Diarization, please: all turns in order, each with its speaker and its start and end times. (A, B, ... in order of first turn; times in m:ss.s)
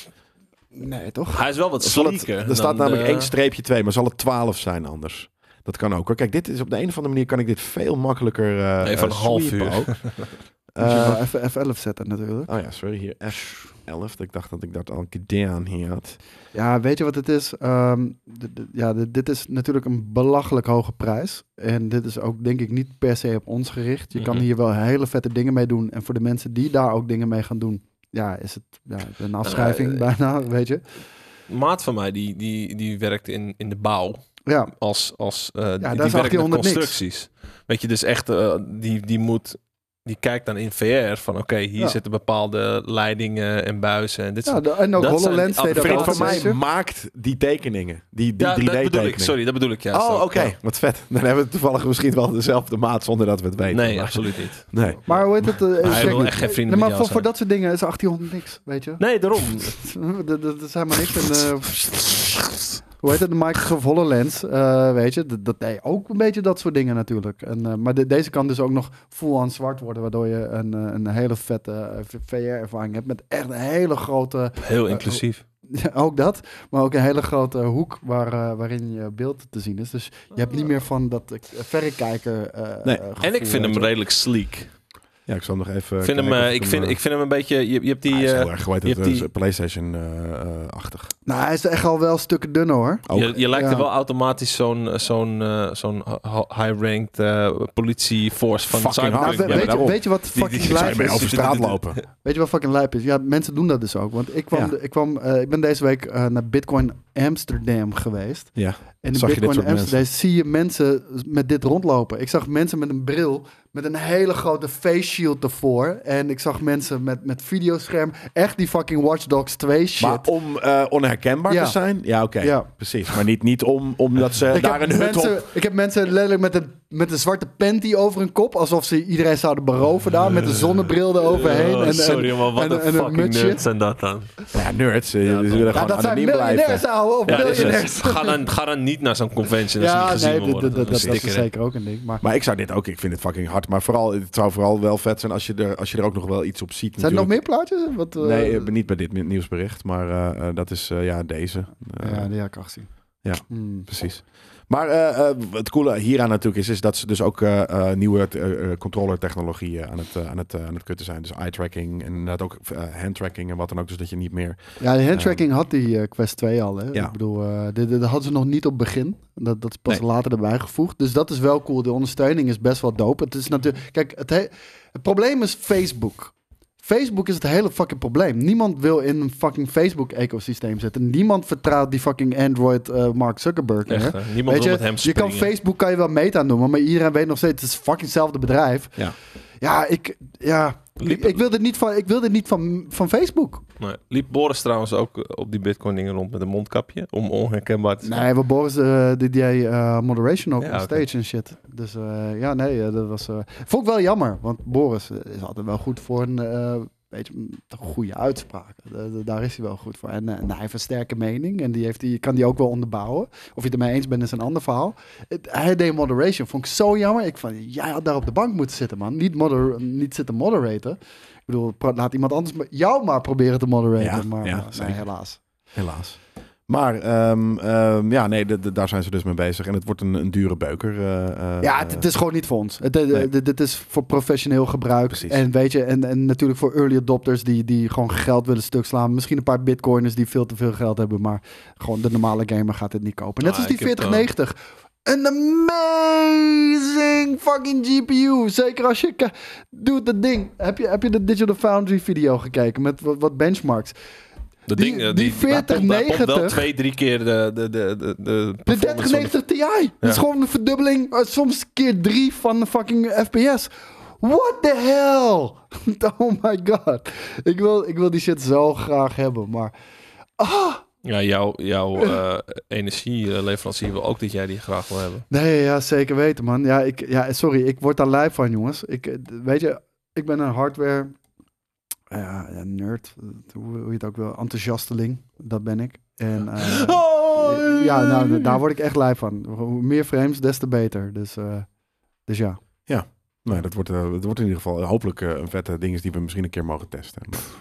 0:00.7-0:01.4 A
0:01.3-0:03.3 B
0:01.8-0:10.0 C
0:08.8-0:10.3 B
0:10.7-0:11.2 C
0:10.8-0:12.5 A
0:12.5-0:16.2 C
0:16.5-0:30.8 A
0:24.1-0:24.5 B
0:29.4-0:30.0 B
0:31.5-0:46.4 B
0:35.8-0:37.0 A
0:44.4-0:46.6 A
0:45.7-0:49.4 C
0:48.4-0:50.5 B
0:49.9-0:56.3 C
0:53.7-0:55.2 B
0:55.0-1:02.1 A
0:55.7-0:57.2 B
0:59.0-0:59.7 B
1:03.0-1:23.9 A
1:14.6-1:15.4 B
1:23.2-1:24.7 B
1:25.3-1:27.0 C
1:26.0-1:29.3 B
1:28.1-1:31.1 C
1:31.2-1:33.8 A
1:33.1-1:33.8 C
1:33.1-1:42.0 B
1:38.7-1:40.0 C
1:39.2-2:00.3 A
1:40.6-1:42.0 C
1:48.6-1:50.0 C
2:00.0-2:05.4 C
2:01.5-2:01.8 A
2:02.4-2:02.7 A
2:04.5-2:13.6 A
2:11.2-2:14.4 B
2:14.5-2:17.8 C
2:15.2-2:15.9 B
2:15.7-2:18.4 A
2:17.2-2:21.5 B
2:19.8-2:22.2 A
2:20.8-2:21.2 C
2:22.2-2:27.4 C
2:27.0-2:28.7 A
2:28.2-2:32.3 C
2:32.0-2:32.9 A
2:33.2-2:44.6 C
2:33.4-2:33.9 A
2:44.8-2:56.3 A
2:45.1-2:45.4 C
2:56.8-3:09.0 A
3:03.8-3:05.5 B
3:09.6-3:13.6 A
3:11.0-3:11.4 B
3:13.8-3:18.2 B
3:18.0-3:45.4 A
3:20.6-3:21.0 B
3:44.0-3:45.0 C
3:45.7-3:52.0 C
3:51.6-4:13.9 A
3:55.1-3:55.4 C
4:03.4-4:04.3 B
4:14.7-4:19.3 B
4:14.7-4:16.6 A
4:18.7-4:29.7 A
4:30.4-4:30.8 A
4:31.0-4:35.2 B
4:35.3-4:41.1 A
4:42.1-4:51.7 A
4:46.8-4:48.4 B
4:52.2-4:52.6 A
4:52.9-4:57.5 C